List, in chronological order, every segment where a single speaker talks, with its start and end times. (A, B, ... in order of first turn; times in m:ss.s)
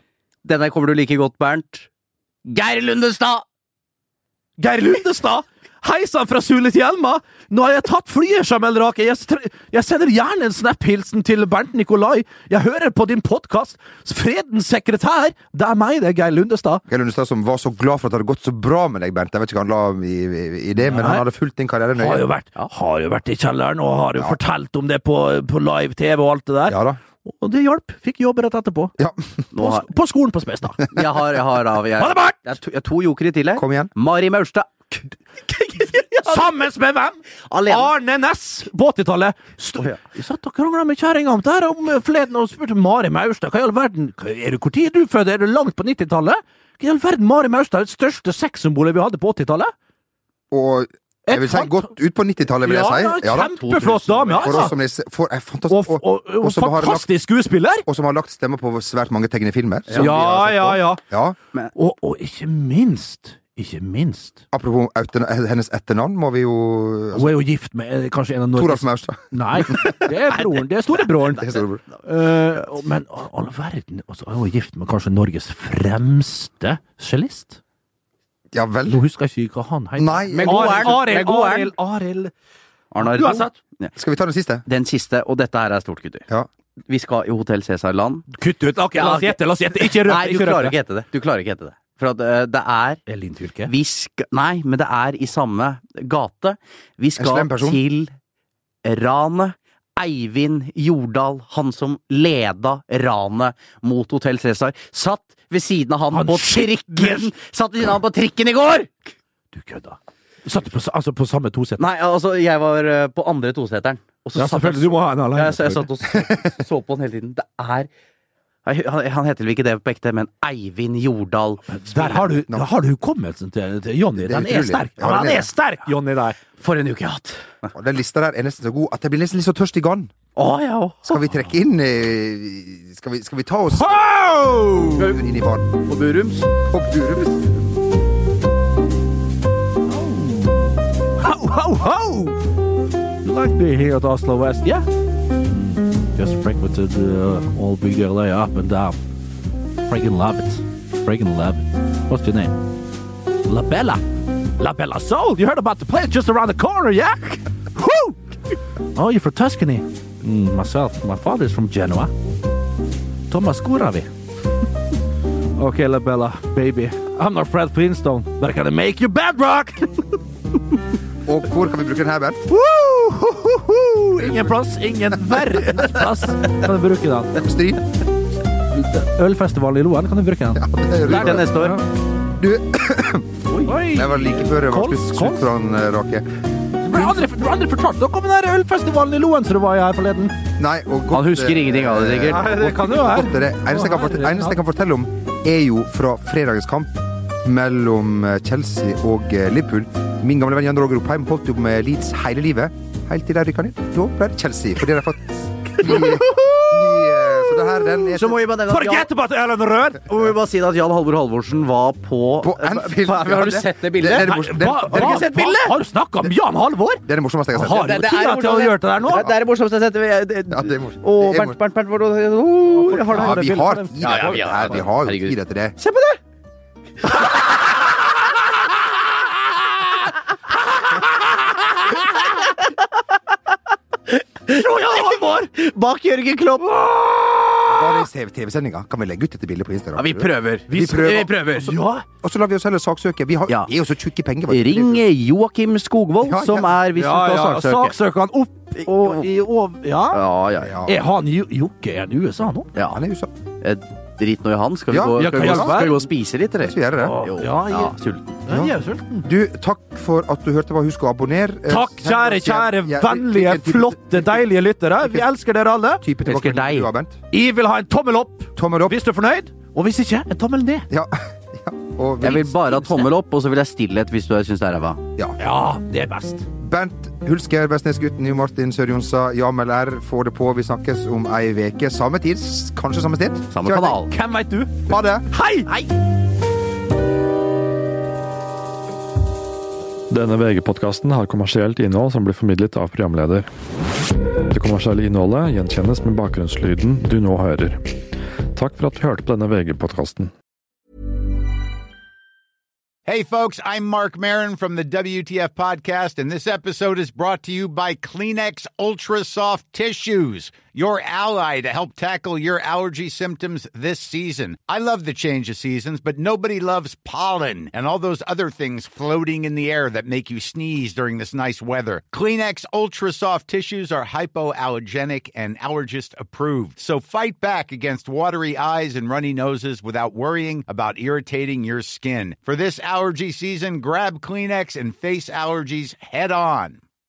0:00.4-0:01.9 A
0:02.4-0:03.4 A
0:04.6-0:16.8 B
0:16.9-0:22.2 C
0:20.8-0:21.2 B
0:22.0-0:28.9 B
0:26.7-0:27.0 C
0:29.0-0:29.4 C
0:29.5-0:29.8 A
0:29.6-0:30.9 B
0:30.9-0:36.4 A
0:32.0-0:32.4 B
0:33.6-0:33.9 C
0:36.2-0:49.7 B
0:37.5-0:37.9 A
0:50.5-0:53.5 C
0:51.3-0:51.9 B
0:52.6-0:54.7 B
0:53.4-0:54.7 A
0:54.4-0:57.1 C
0:55.7-0:57.8 B
0:57.8-1:01.4 C
0:59.9-1:00.2 A
0:59.9-1:01.0 B
1:01.7-1:04.4 B
1:04.5-1:07.4 C
1:07.1-1:17.6 B
1:08.6-1:10.1 C
1:11.2-1:11.8 C
1:18.5-1:19.0 C
1:18.9-1:22.3 B
1:20.0-1:20.9 C
1:20.3-1:21.7 A
1:22.9-1:23.9 A
1:23.0-1:23.5 B
1:24.0-1:24.6 C
1:24.6-1:26.2 A
1:26.9-1:28.2 A
1:28.3-1:30.7 B
1:28.9-1:33.0 A
1:33.1-1:33.7 B
1:33.6-1:38.1 A
1:37.2-1:37.8 C
1:38.8-1:49.1 A
1:46.1-1:47.3 B
1:49.5-1:51.8 B
1:51.8-1:57.9 A
1:54.4-1:55.9 B
1:58.6-2:02.3 A
2:01.7-2:06.4 B
2:04.2-2:05.5 C
2:06.6-2:07.7 A
2:07.7-2:10.1 C
2:10.4-2:11.2 A
2:11.0-2:13.9 C
2:13.7-2:15.0 B
2:14.9-2:15.2 A
2:15.0-2:15.7 C
2:15.8-2:16.5 A
2:16.7-2:17.5 C
2:19.9-2:22.4 B
2:23.2-2:24.8 B
2:25.4-2:29.0 B
2:29.9-2:32.6 B
2:33.5-2:34.0 B
2:34.6-2:38.2 B
2:38.9-2:42.1 B
2:43.3-2:44.1 B
2:45.6-2:50.1 B
2:51.2-2:52.5 C
2:52.5-2:57.3 B
2:57.3-2:57.8 C
2:58.7-3:01.8 B
3:00.6-3:01.6 C
3:01.1-3:01.8 A
3:02.2-3:06.4 C
3:03.6-3:05.5 B
3:06.8-3:10.4 B
3:06.9-3:07.2 C
3:10.6-3:28.4 C
3:11.1-3:12.5 A
3:12.2-3:14.6 B
3:25.8-3:27.9 B
3:28.0-3:29.1 A
3:28.7-3:30.1 B
3:30.0-3:35.7 A
3:32.4-3:35.3 C
3:34.2-3:39.2 B
3:37.0-3:37.9 C
3:37.7-3:43.4 A
3:40.5-3:41.6 C
3:42.7-3:44.8 B
3:43.1-3:45.7 C
3:44.0-3:46.2 A
3:54.4-3:57.7 A
3:54.5-3:55.5 B
3:57.6-4:01.3 C
4:00.0-4:01.7 A
4:00.7-4:02.0 B
4:02.2-4:05.0 C
4:04.5-4:07.9 A
4:06.2-4:06.7 C
4:06.9-4:10.2 B
4:08.8-4:09.3 A
4:10.1-4:10.8 A
4:10.6-4:10.9 C
4:10.8-4:12.7 B
4:12.8-4:13.3 C
4:13.6-4:18.2 A
4:14.9-4:15.9 C
4:15.1-4:16.1 B
4:16.6-4:17.2 C
4:17.0-4:19.3 B
4:19.2-4:24.4 C
4:21.7-4:26.0 B
4:25.0-4:25.3 C
4:26.0-4:27.2 C
4:26.2-4:26.9 A
4:27.3-4:30.9 B
4:28.6-4:29.0 C
4:30.9-4:32.5 C
4:32.2-4:35.0 A
4:32.3-4:33.1 B
4:35.4-4:36.4 B
4:36.6-4:44.0 C
4:43.5-4:44.1 A
4:44.1-4:45.9 B
4:44.9-4:45.3 C
4:50.1-4:53.5 D
4:54.5-4:58.0 D
4:58.5-5:00.3 D
5:03.0-5:36.8 E